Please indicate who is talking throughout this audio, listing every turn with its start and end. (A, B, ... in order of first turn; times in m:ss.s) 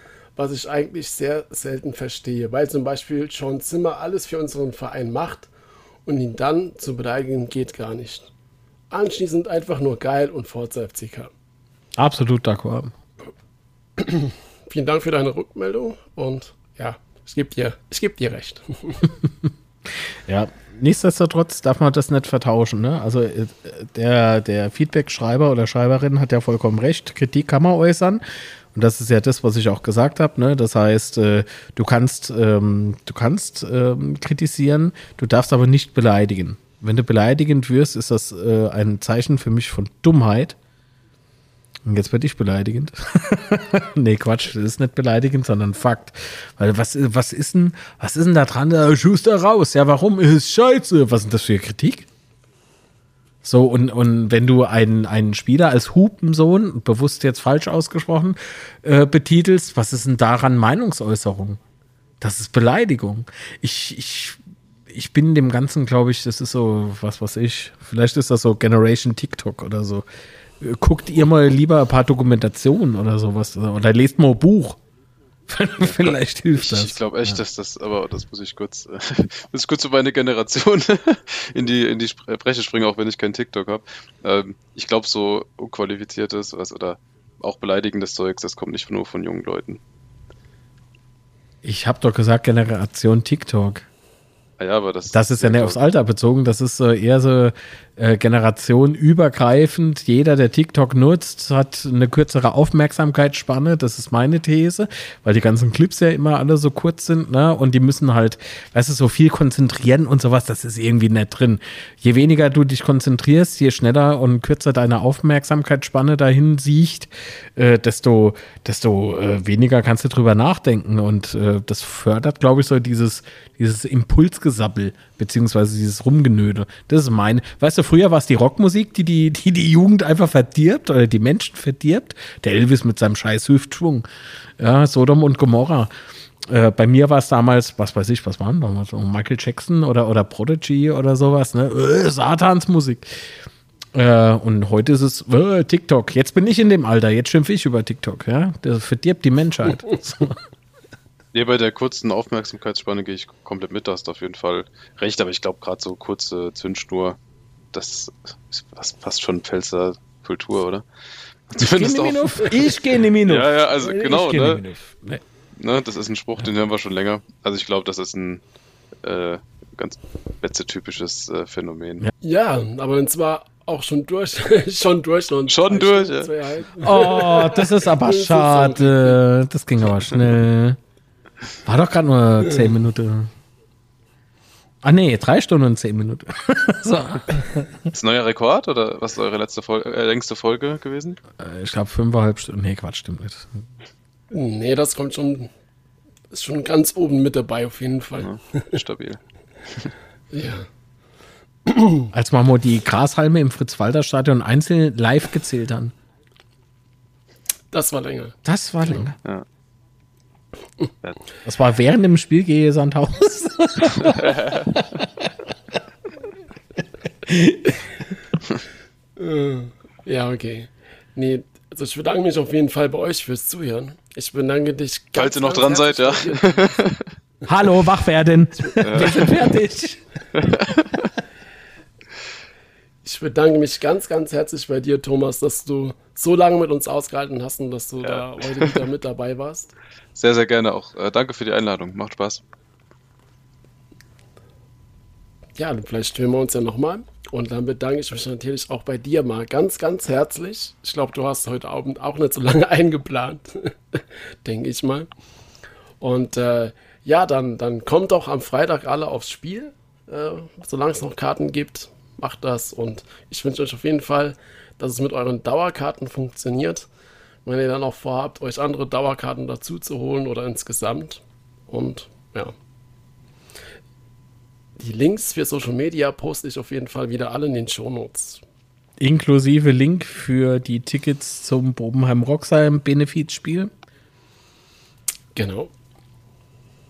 0:00.4-0:05.5 A
0:06.1-0:08.3 A
0:08.9-0:11.3 A
0:12.0-0:12.9 B
0:14.0-0:19.1 A
0:20.0-0:40.6 B
0:41.8-0:52.1 B
0:53.4-1:01.6 B
1:02.2-1:10.0 B
1:10.6-1:14.8 B
1:15.5-1:17.4 B
1:15.8-1:29.8 C
1:31.6-1:33.9 B
1:34.6-1:35.8 C
1:35.1-2:14.1 B
2:14.6-2:15.9 B
2:16.5-2:23.4 B
2:23.9-2:30.4 B
2:31.3-2:37.2 C
2:37.7-2:40.8 C
2:41.5-2:44.6 C
2:41.6-2:45.2 B
2:45.6-2:48.4 C
2:49.0-2:52.1 C
2:52.2-2:59.2 A
2:55.5-2:56.3 C
2:56.8-3:00.8 B
3:01.6-3:03.3 B
3:04.8-3:07.9 B
3:07.9-3:11.2 C
3:11.4-3:13.6 B
3:14.3-3:15.5 A
3:16.3-3:18.8 A
3:18.2-3:19.9 C
3:20.3-3:20.7 A
3:21.7-3:22.1 A
3:22.1-3:25.9 B
3:27.7-3:28.4 A
3:28.4-3:29.2 B
3:31.4-3:35.3 B
3:34.0-3:34.8 C
3:37.3-3:38.1 B
3:39.2-3:46.7 A
3:45.2-3:47.1 C
3:47.5-3:50.7 B
3:48.8-3:49.4 C
3:50.4-3:50.9 C
3:53.0-3:59.7 A
3:58.0-3:58.8 C
4:00.2-4:02.4 C
4:05.6-4:15.1 A
4:16.0-4:26.9 A
4:27.4-4:32.6 A
4:34.8-4:38.4 A
4:39.0-4:43.7 B
4:45.4-4:45.7 A